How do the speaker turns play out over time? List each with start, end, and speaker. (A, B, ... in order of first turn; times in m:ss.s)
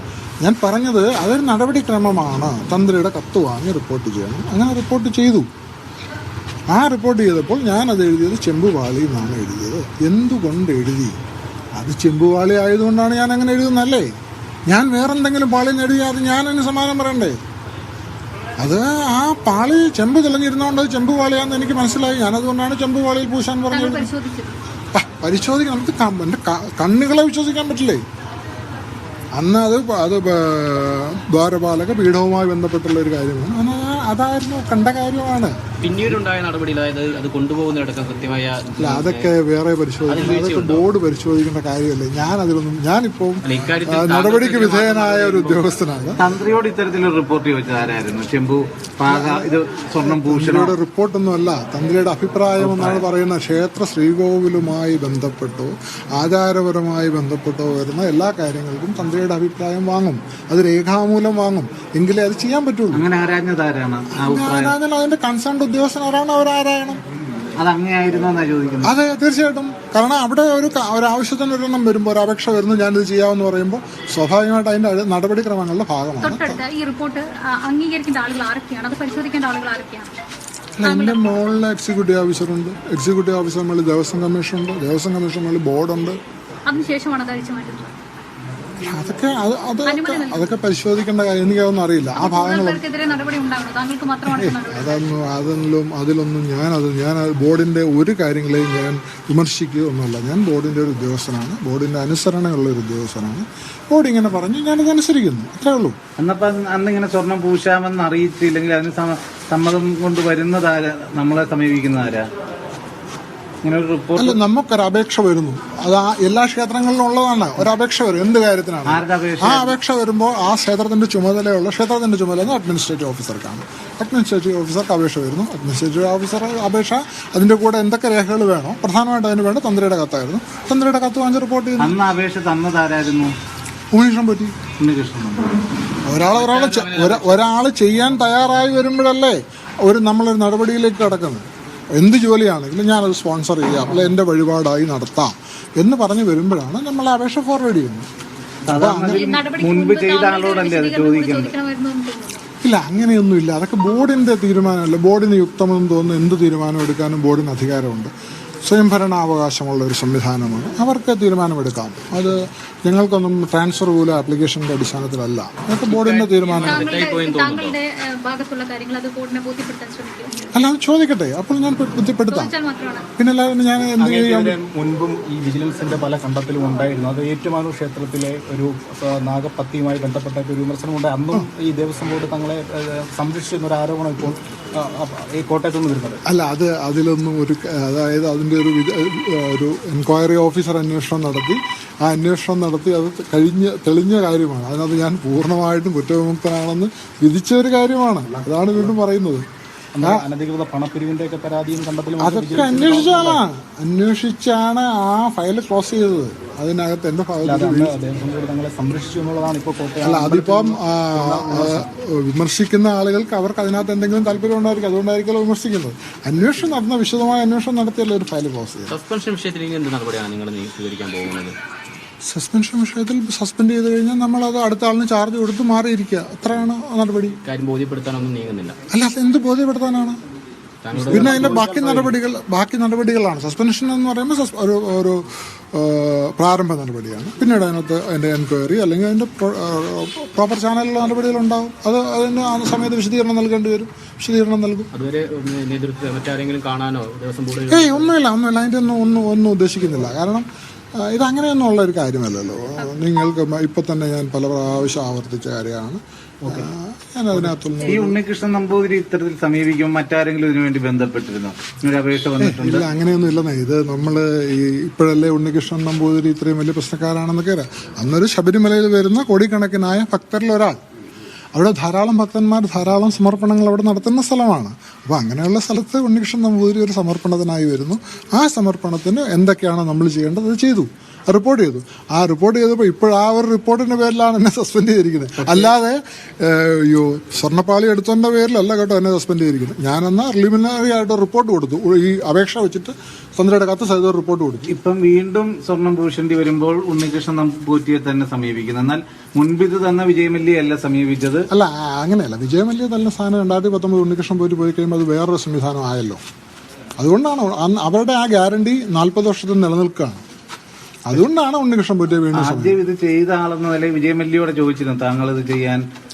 0:00.4-0:05.5 A
0:06.7-0:11.2 A
0:11.8-0:14.1 A
0:14.7-0:17.4 A
0:18.6-0:24.1 A
0:23.7-0:24.6 B
0:24.9-0:28.0 A
0:29.4-0:35.6 A
0:35.8-0:39.4 C
0:38.8-0:46.2 A
0:40.1-0:40.9 C
0:43.4-0:45.6 C
0:46.2-0:50.8 D
0:49.1-1:03.0 A
0:52.6-0:53.1 D
1:02.9-1:04.8 D
1:04.2-1:07.0 A
1:07.6-1:08.9 D
1:08.8-1:16.6 A
1:16.2-1:20.1 B
1:20.8-1:26.2 A
1:20.8-1:21.3 B
1:26.7-1:27.9 B
1:28.8-1:32.8 A
1:29.9-1:30.5 B
1:32.2-1:35.0 B
1:34.3-1:46.0 A
1:46.2-1:52.2 D
1:53.6-1:54.4 D
1:54.2-2:12.0 A
1:58.9-1:59.8 D
2:11.8-2:13.3 D
2:13.9-2:14.5 A
2:14.8-2:15.5 D
2:16.1-2:21.4 A
2:16.3-2:17.5 C
2:22.0-2:28.1 A
2:28.7-2:31.5 D
2:28.7-2:29.3 A
2:29.1-2:32.4 B
2:32.6-2:38.1 A
2:38.6-2:46.9 A
2:45.8-2:47.8 C
2:46.6-2:50.5 B
2:50.5-2:52.5 A
2:52.3-2:53.0 B
2:53.2-2:54.6 A
2:54.0-3:06.2 E
3:06.3-3:19.4 A
3:20.0-3:23.4 E
3:22.2-3:27.9 A
3:27.4-3:31.9 E
3:30.0-3:39.0 A
3:38.9-3:41.6 C
3:42.2-3:47.4 A
3:47.4-3:48.8 C
3:48.9-3:50.2 A
3:50.8-3:52.0 C
3:50.9-3:52.1 E
3:51.1-4:04.9 A
4:04.9-4:08.1 C
4:07.7-4:10.4 A
4:11.0-4:18.2 A
4:16.5-4:16.7 E
4:17.3-4:17.7 E
4:17.8-4:22.8 D
4:22.4-4:30.8 A
4:31.5-4:54.7 A
4:54.7-5:01.5 D
5:01.5-5:06.2 A
5:07.0-5:10.2 A
5:11.1-5:12.8 A
5:12.3-5:15.8 D